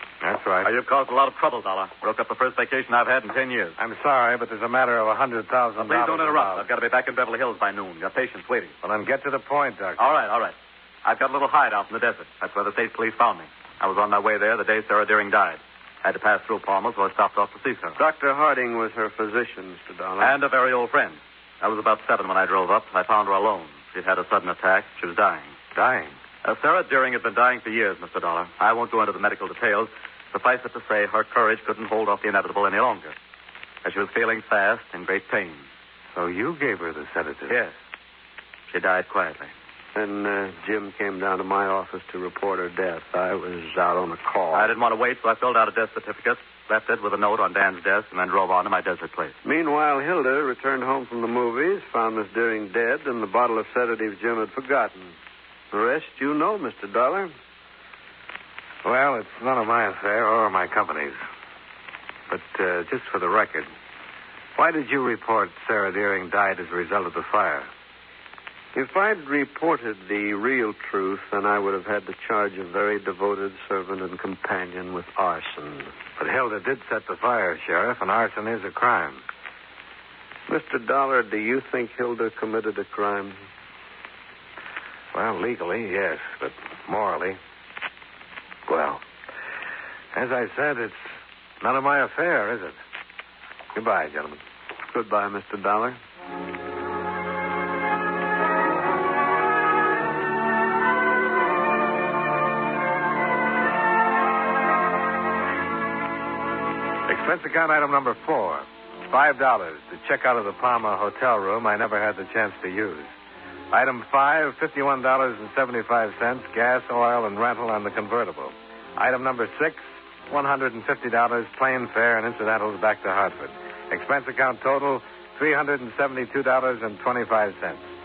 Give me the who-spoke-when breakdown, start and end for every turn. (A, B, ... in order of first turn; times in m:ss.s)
0:00.2-0:00.7 A
0:00.6-0:03.8 B
0:03.8-0:06.7 A
0:05.8-0:08.8 B
0:08.8-0:10.1 A
0:10.0-0:18.0 B
0:18.0-0:20.4 C
0:20.2-0:25.5 B
0:25.7-0:26.1 A
0:26.4-0:33.1 B
0:33.8-0:35.6 B
0:36.1-0:37.6 A
0:37.5-0:37.7 B
0:38.7-0:39.5 B
0:39.9-0:44.7 C
0:44.5-0:49.4 B
0:49.4-0:55.1 C
0:55.7-0:57.3 C
0:58.8-1:01.2 A
1:02.3-1:03.7 A
1:04.6-1:07.7 A
1:08.7-1:15.9 C
1:16.2-1:19.2 A
1:20.5-1:23.4 C
1:25.1-1:27.4 A
1:28.7-1:29.0 A
1:30.1-1:32.8 A
1:33.7-1:34.4 A
1:34.9-1:36.0 C
1:47.1-1:53.1 A
1:53.7-2:07.9 A